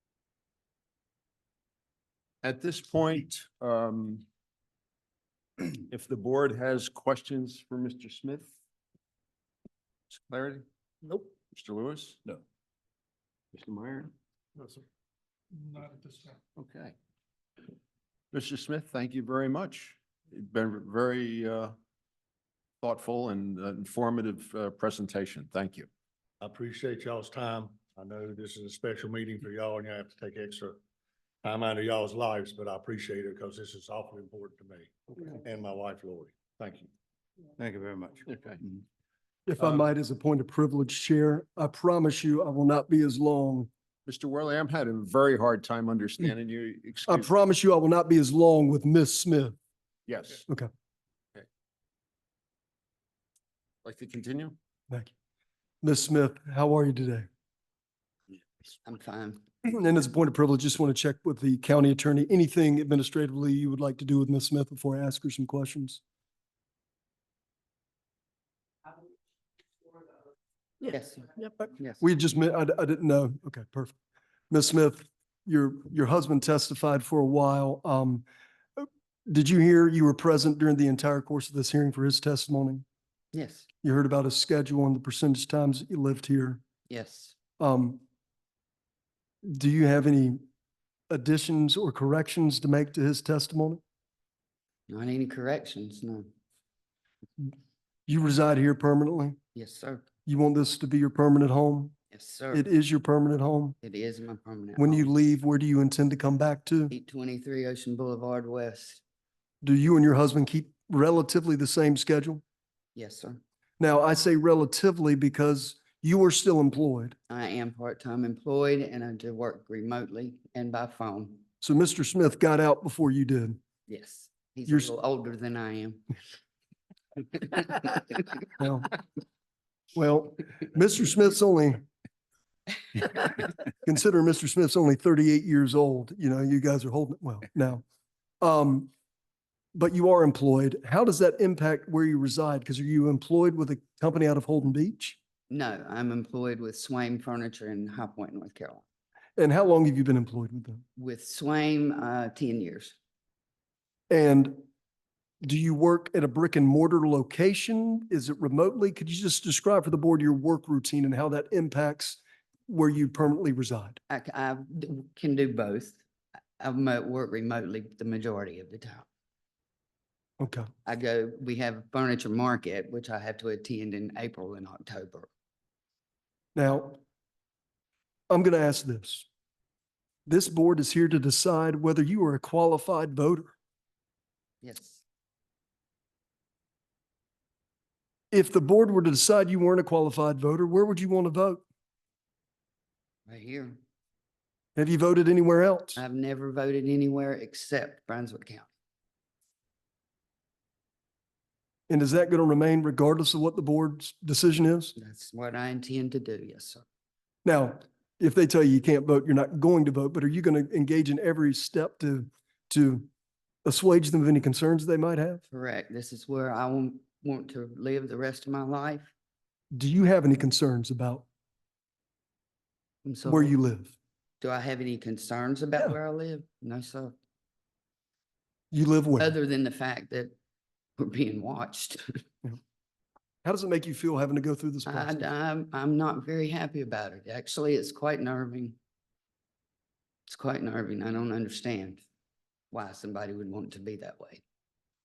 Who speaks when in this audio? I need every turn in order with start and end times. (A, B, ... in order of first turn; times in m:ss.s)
0:02.4-0:04.2 A
0:05.7-0:08.5 A
0:10.1-0:10.6 A
0:11.5-0:12.4 A
0:13.5-0:14.1 A
0:16.6-0:16.9 A
0:18.3-0:21.7 A
0:22.8-0:25.9 A
0:26.4-0:30.8 B
0:31.4-0:36.9 B
0:37.6-0:38.3 B
0:38.3-0:38.6 A
0:39.5-0:43.7 C
0:44.0-0:47.3 A
0:47.1-0:49.5 C
0:50.1-0:50.4 A
0:53.8-0:54.5 A
0:55.8-0:57.3 C
0:58.8-0:59.4 D
0:59.6-1:06.0 C
1:10.8-1:12.0 D
1:12.0-1:13.9 C
1:14.5-1:18.2 C
1:18.8-1:22.8 C
1:23.3-1:23.7 D
1:23.8-1:26.6 C
1:26.9-1:27.3 D
1:27.6-1:28.0 C
1:29.4-1:30.4 C
1:31.1-1:33.8 C
1:34.9-1:36.2 D
1:38.1-1:39.4 C
1:39.5-1:40.1 D
1:40.2-1:41.9 C
1:42.1-1:42.6 D
1:42.5-1:43.8 C
1:43.8-1:45.0 D
1:44.8-1:46.9 C
1:46.9-1:49.0 D
1:49.6-1:52.4 C
1:52.9-1:53.4 D
1:53.8-1:57.1 C
1:57.3-2:01.4 D
2:01.6-2:03.6 C
2:03.9-2:06.0 D
2:07.3-2:08.2 D
2:08.6-2:08.9 C
2:09.9-2:11.9 C
2:13.1-2:17.8 C
2:18.4-2:18.9 C
2:19.7-2:25.2 C
2:25.5-2:28.8 D
2:29.4-2:30.8 C
2:31.0-2:33.0 D
2:34.1-2:34.6 C
2:35.4-2:44.0 C
2:44.1-2:46.0 D
2:46.6-2:49.1 D
2:50.4-2:50.7 C
2:50.8-2:55.3 D
2:56.5-2:57.0 C
2:58.3-2:59.3 C
3:00.3-3:03.5 C
3:04.6-3:05.0 D
3:08.3-3:11.6 C
3:13.3-3:13.8 D
3:14.8-3:16.0 C
3:16.0-3:18.7 D
3:21.9-3:24.9 C
3:24.9-3:26.8 D
3:27.4-3:33.1 C
3:33.6-3:35.4 C
3:35.5-3:39.1 D
3:39.7-3:41.2 C
3:43.0-3:43.5 D
3:43.2-3:43.9 C
3:44.4-3:47.1 D
3:48.7-3:49.3 C
3:49.2-3:50.3 D
3:51.0-3:52.2 D
3:53.4-3:55.3 C
3:54.8-3:58.8 D
4:00.3-4:02.0 D
4:02.7-4:04.4 D